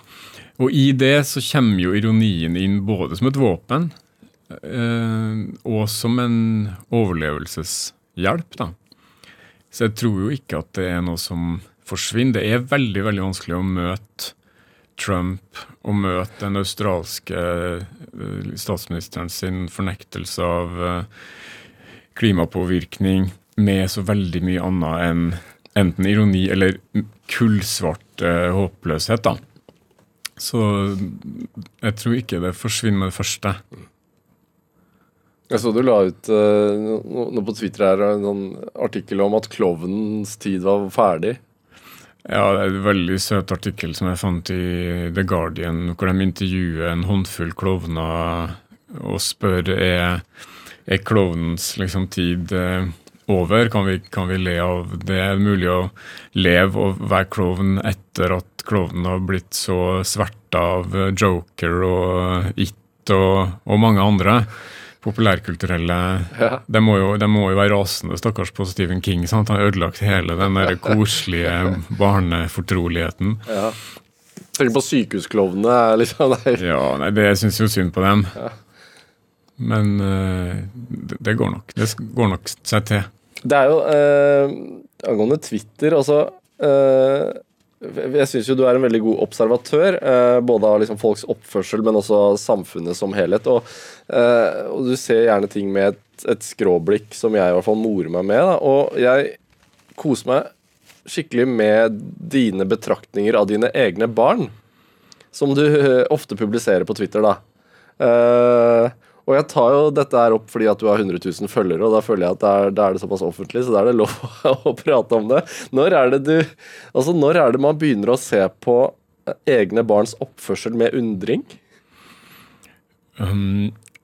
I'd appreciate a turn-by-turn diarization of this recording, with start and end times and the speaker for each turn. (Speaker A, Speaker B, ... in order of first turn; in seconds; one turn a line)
Speaker A: 0.6-3.9
Speaker A: 4.5-8.7
Speaker A: 9.7-14.3
Speaker A: 15.0-21.1
Speaker A: 22.1-29.4
Speaker A: 30.4-33.6
Speaker B: 35.5-41.4
Speaker A: 42.2-50.2
Speaker A: 50.9-64.5
Speaker A: 65.0-73.5
Speaker B: 73.5-73.8
Speaker B: 74.5-76.6
Speaker A: 76.6-78.4
Speaker A: 79.6-83.1
Speaker B: 83.4-99.4
Speaker B: 99.9-100.5
Speaker B: 101.0-104.5
Speaker B: 105.3-107.4
Speaker B: 108.0-121.6
Speaker A: 123.2-123.7